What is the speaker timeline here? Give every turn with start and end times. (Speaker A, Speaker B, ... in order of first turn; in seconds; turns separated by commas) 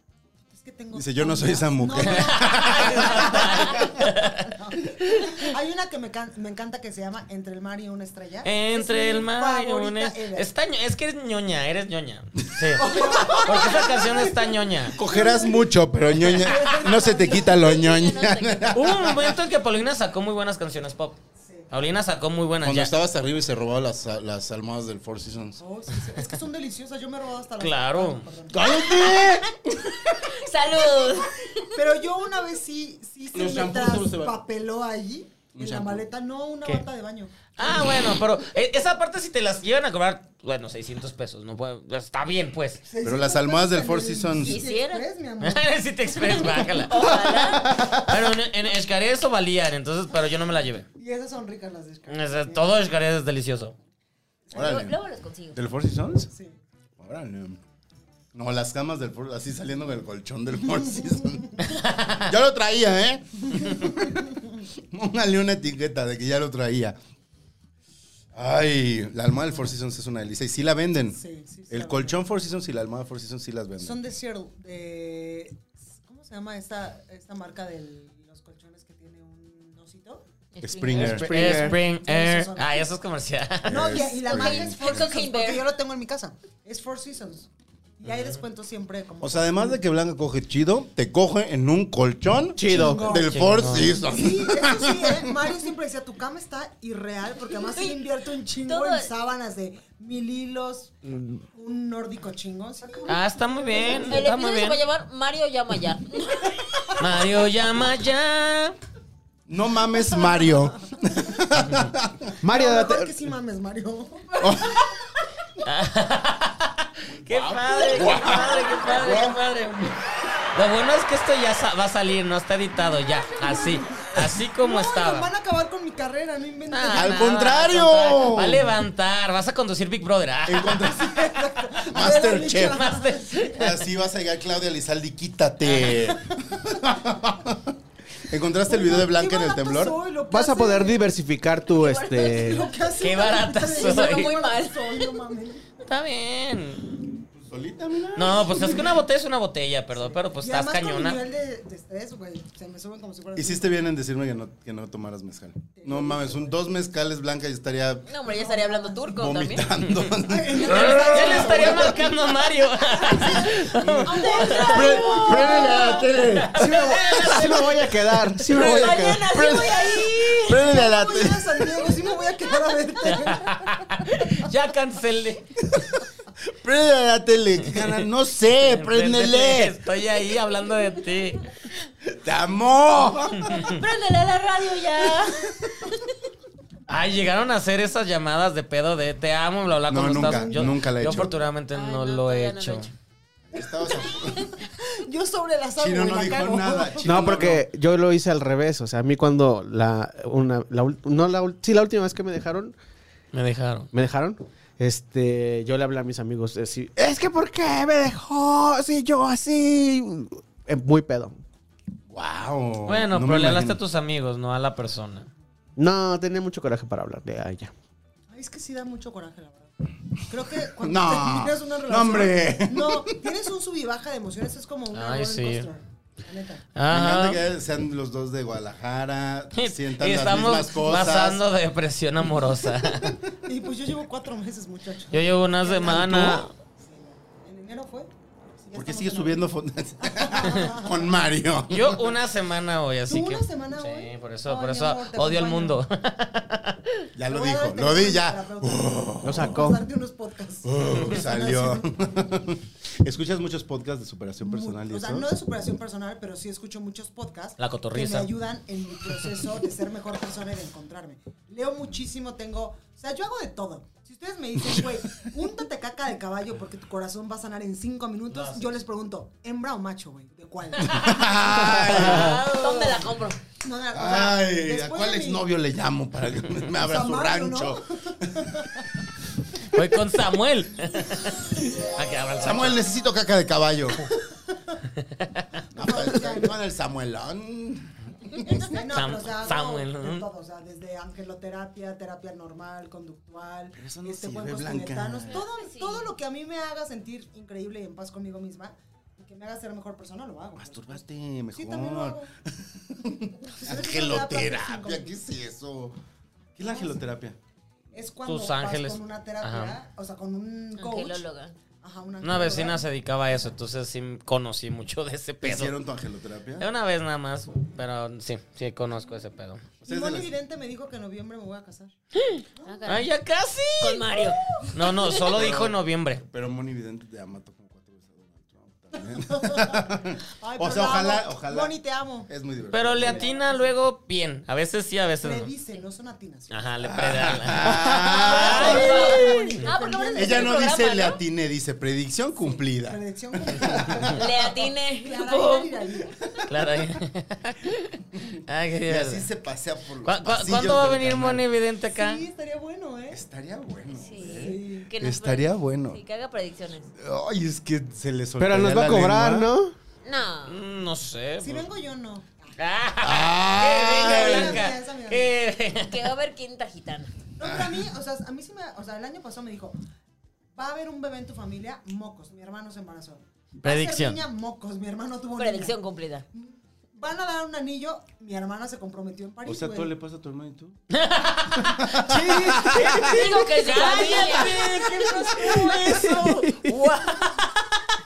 Speaker A: 0.5-10.5, Speaker B: 0.9-4.0, Speaker C: 2.0-4.5, Speaker C: 8.4-15.0, Speaker B: 12.6-13.5, Speaker A: 12.8-15.7, Speaker B: 14.9-19.4, Speaker C: 16.2-16.8, Speaker A: 16.4-17.6, Speaker D: 17.0-18.9, Speaker C: 18.7-21.2, Speaker A: 21.4-21.6, Speaker C: 21.7-22.9, Speaker B: 22.6-25.6, Speaker A: 25.6-28.6, Speaker C: 27.6-28.2, Speaker B: 28.5-29.9, Speaker D: 30.2-31.7, Speaker A: 31.7-38.0, Speaker B: 33.3-34.4, Speaker B: 35.5-36.1, Speaker C: 37.5-42.8, Speaker A: 42.9-46.9, Speaker B: 43.0-44.6, Speaker D: 44.4-45.1, Speaker C: 45.4-50.9, Speaker D: 46.7-47.7, Speaker B: 47.6-48.1, Speaker A: 51.0-52.7, Speaker C: 52.1-53.7, Speaker D: 54.5-55.6, Speaker B: 54.5-55.0, Speaker B: 55.5-56.3, Speaker A: 56.3-56.6, Speaker B: 57.0-57.6, Speaker B: 58.3-67.0, Speaker A: 61.4-61.7, Speaker C: 61.7-62.3, Speaker A: 63.6-64.5, Speaker B: 68.3-71.2, Speaker A: 71.1-72.2, Speaker B: 71.7-74.0, Speaker A: 73.8-80.2, Speaker D: 80.5-81.2, Speaker B: 80.6-81.7, Speaker C: 80.9-84.0, Speaker E: 81.0-81.8, Speaker A: 81.9-82.9, Speaker B: 83.7-85.1, Speaker A: 83.7-89.8, Speaker D: 84.2-85.6, Speaker B: 89.2-95.5, Speaker E: 92.5-93.1, Speaker A: 92.6-101.0, Speaker C: 93.3-94.0, Speaker D: 97.7-98.0, Speaker D: 98.6-99.1, Speaker E: 101.1-101.4, Speaker A: 101.5-104.2, Speaker C: 103.0-104.8, Speaker D: 103.9-106.6, Speaker A: 106.6-107.0, Speaker C: 107.0-108.8, Speaker B: 109.5-112.3, Speaker A: 110.1-110.6, Speaker E: 112.4-113.1, Speaker A: 112.5-114.6, Speaker B: 114.4-114.9, Speaker C: 115.6-119.9, Speaker B: 117.2-119.9, Speaker C: 120.5-125.3, Speaker A: 123.3-127.3, Speaker C: 126.7-130.9, Speaker B: 126.9-128.7, Speaker B: 130.4-132.9, Speaker A: 130.9-133.6, Speaker C: 132.7-133.8, Speaker B: 133.6-137.7, Speaker C: 135.6-136.0, Speaker B: 138.2-140.0, Speaker A: 138.7-141.0, Speaker E: 140.3-142.7, Speaker D: 141.8-142.7, Speaker A: 142.2-145.7, Speaker C: 143.0-144.3, Speaker D: 143.7-145.2, Speaker C: 145.9-146.9, Speaker B: 147.3-148.9, Speaker C: 148.1-151.2, Speaker A: 148.5-148.8, Speaker A: 149.9-153.8, Speaker B: 153.3-158.1, Speaker A: 155.8-156.6, Speaker D: 158.1-159.7, Speaker A: 158.3-159.1, Speaker B: 159.1-162.1, Speaker A: 160.2-162.1, Speaker C: 160.7-164.7, Speaker A: 162.8-166.0, Speaker B: 163.8-164.1, Speaker D: 164.1-166.0, Speaker B: 164.7-166.7, Speaker C: 165.4-168.1, Speaker E: 166.5-169.3, Speaker D: 168.5-170.6, Speaker B: 169.3-171.9, Speaker A: 170.5-174.2, Speaker C: 173.2-175.9, Speaker B: 176.5-179.7, Speaker C: 177.7-178.0, Speaker C: 178.6-181.5, Speaker B: 182.0-183.7, Speaker C: 183.4-183.7, Speaker D: 183.5-185.5, Speaker C: 186.9-192.9, Speaker B: 189.9-191.4, Speaker A: 190.1-190.7, Speaker D: 191.7-192.9, Speaker B: 193.5-194.5, Speaker A: 194.8-197.4, Speaker B: 195.8-197.6, Speaker E: 197.0-202.7, Speaker C: 203.3-203.9, Speaker E: 203.9-211.4, Speaker B: 212.1-213.8, Speaker C: 212.8-215.3, Speaker E: 215.8-217.7, Speaker A: 218.3-219.7, Speaker A: 220.3-226.7, Speaker B: 220.7-223.3, Speaker C: 224.9-225.7, Speaker C: 226.7-227.4, Speaker B: 226.9-231.4, Speaker C: 229.5-233.2, Speaker A: 232.9-239.5, Speaker C: 235.1-236.5, Speaker B: 235.9-236.4, Speaker B: 238.7-242.1, Speaker A: 240.0-241.1, Speaker C: 241.7-247.0, Speaker A: 243.1-245.8, Speaker B: 247.2-249.6, Speaker A: 247.3-251.9, Speaker E: 249.2-249.8, Speaker B: 250.6-255.3, Speaker A: 254.4-271.4, Speaker C: 257.6-258.3, Speaker B: 264.7-265.3, Speaker C: 268.3-268.8, Speaker B: 270.8-272.4, Speaker D: 271.9-273.4, Speaker C: 271.9-272.3, Speaker A: 273.6-275.4, Speaker B: 273.9-278.5, Speaker C: 276.2-276.5, Speaker A: 276.8-278.8, Speaker C: 279.7-282.8, Speaker B: 282.4-284.1, Speaker A: 284.5-284.8, Speaker C: 285.0-285.4, Speaker B: 285.7-288.8, Speaker A: 285.8-286.6, Speaker A: 288.4-301.0, Speaker C: 288.9-290.3, Speaker B: 293.8-295.4, Speaker D: 295.3-296.1, Speaker B: 300.6-306.0, Speaker A: 301.5-302.3, Speaker A: 303.5-305.2, Speaker B: 306.6-307.4, Speaker A: 306.6-307.0, Speaker A: 307.9-311.2, Speaker C: 308.2-309.8, Speaker D: 310.8-311.6, Speaker A: 311.8-312.8, Speaker C: 312.2-315.7, Speaker B: 315.4-316.7, Speaker C: 316.6-319.6, Speaker A: 319.8-321.9, Speaker B: 319.8-320.3, Speaker C: 322.1-324.2, Speaker A: 322.6-322.9, Speaker D: 322.6-323.1, Speaker D: 323.8-324.9, Speaker A: 324.4-325.3, Speaker C: 324.7-326.2, Speaker B: 325.3-331.7, Speaker A: 329.0-332.3, Speaker B: 332.3-333.3, Speaker C: 332.7-335.5, Speaker A: 333.0-333.8, Speaker A: 335.2-336.7, Speaker C: 336.5-339.6, Speaker B: 336.8-339.4, Speaker E: 337.6-338.1, Speaker D: 338.2-341.2, Speaker A: 338.2-340.6, Speaker B: 340.1-344.2, Speaker A: 342.9-346.4, Speaker D: 344.1-346.4, Speaker C: 346.5-349.3, Speaker B: 348.2-351.4, Speaker C: 350.0-352.2, Speaker A: 351.9-353.2, Speaker B: 353.1-356.0, Speaker D: 353.9-356.9, Speaker A: 354.2-354.9, Speaker B: 356.9-359.5, Speaker E: 358.4-359.7, Speaker D: 360.0-360.6, Speaker C: 360.4-361.6, Speaker A: 361.4-362.5, Speaker C: 362.6-366.0, Speaker B: 363.0-364.6, Speaker A: 363.9-365.3, Speaker D: 365.7-367.1, Speaker A: 367.4-369.8, Speaker B: 367.4-367.9, Speaker A: 370.5-375.8, Speaker C: 373.6-374.2, Speaker D: 375.3-376.2, Speaker A: 376.3-379.9, Speaker B: 379.4-380.8, Speaker C: 380.9-387.8, Speaker B: 381.6-383.2, Speaker E: 382.1-383.1, Speaker D: 382.9-384.7, Speaker A: 383.5-386.1, Speaker E: 385.8-387.0